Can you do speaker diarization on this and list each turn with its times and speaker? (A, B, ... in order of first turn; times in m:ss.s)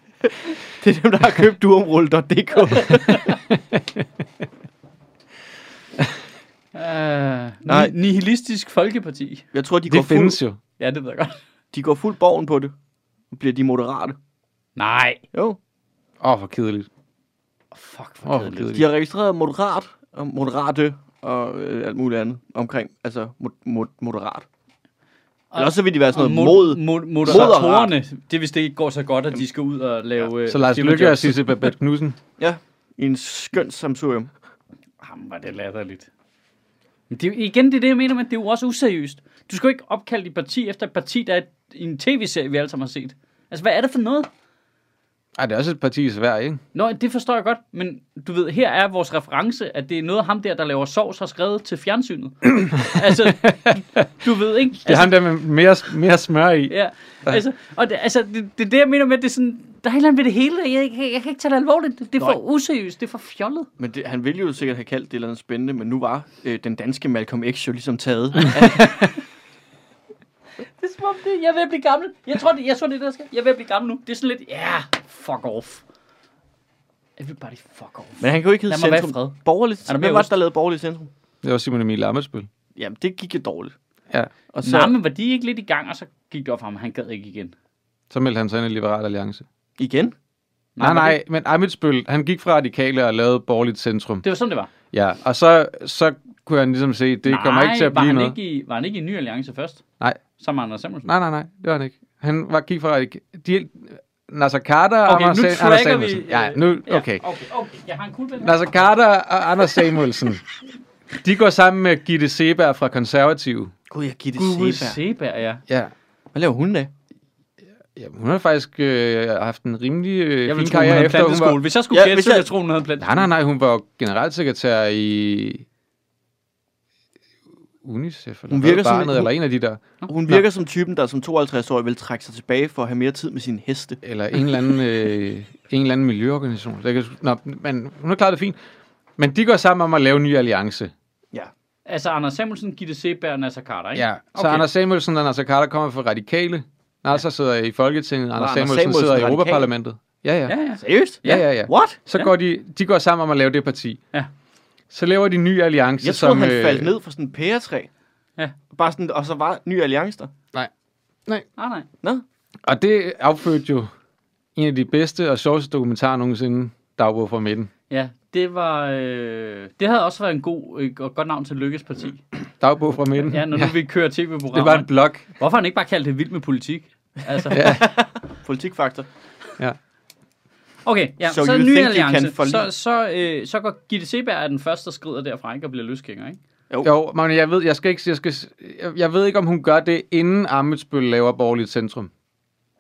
0:00.2-0:03.4 A
0:02.8-0:03.4 B
0:03.5-0:04.0 C
0:06.7-0:09.5 B
0:07.7-0:07.9 A
0:09.5-0:10.4 A
0:09.9-0:10.6 C
0:10.8-0:11.4 B
0:11.7-0:12.7 A
0:13.3-0:14.2 A
0:14.8-0:15.2 B
0:16.2-0:16.9 C
0:17.7-0:18.8 B
0:18.2-0:18.8 C
0:18.7-0:24.4 A
0:25.5-0:31.6 B
0:25.6-0:27.9 A
0:30.5-0:32.2 C
0:32.4-0:34.3 A
0:35.0-0:36.1 B
0:37.1-0:44.3 B
0:45.4-0:46.6 C
0:46.7-0:55.2 B
0:52.9-0:54.1 C
0:54.8-0:56.7 C
0:56.7-1:03.7 B
1:03.8-1:09.1 A
1:10.8-1:15.8 B
1:17.2-1:20.3 B
1:18.2-1:21.1 A
1:21.4-1:22.5 C
1:22.8-1:23.7 A
1:24.5-1:24.9 A
1:24.6-1:27.5 B
1:28.1-1:29.4 C
1:29.8-1:30.1 A
1:30.8-1:31.2 B
1:30.8-1:34.2 C
1:34.2-1:34.7 B
1:34.9-1:38.3 C
1:37.2-1:39.8 B
1:40.4-1:41.1 B
1:41.0-1:47.2 C
1:45.0-1:48.7 B
1:48.4-1:50.4 C
1:51.2-1:53.7 C
1:53.9-1:55.0 A
1:54.4-1:55.6 B
1:55.7-1:55.9 C
1:56.3-1:56.9 A
1:57.9-2:01.6 C
2:00.4-2:03.3 B
2:01.9-2:02.5 A
2:03.0-2:05.6 C
2:07.8-2:10.4 C
2:08.5-2:09.3 A
2:10.1-2:14.0 A
2:14.0-2:18.6 C
2:19.2-2:20.9 C
2:21.9-2:24.7 B
2:23.9-2:30.6 C
2:28.4-2:29.7 A
2:30.5-2:31.5 B
2:30.8-2:32.0 A
2:31.2-2:34.0 C
2:34.9-2:36.9 C
2:36.0-2:37.9 A
2:38.7-2:40.3 A
2:41.6-2:41.9 B
2:42.6-2:43.9 C
2:44.6-2:47.7 C
2:47.9-2:52.2 B
2:52.6-2:53.7 C
2:53.2-2:57.7 B
2:54.5-2:55.2 C
2:57.5-2:59.1 A
2:57.5-2:57.9 C
3:00.8-3:06.4 B
3:01.2-3:02.7 A
3:06.8-3:12.1 C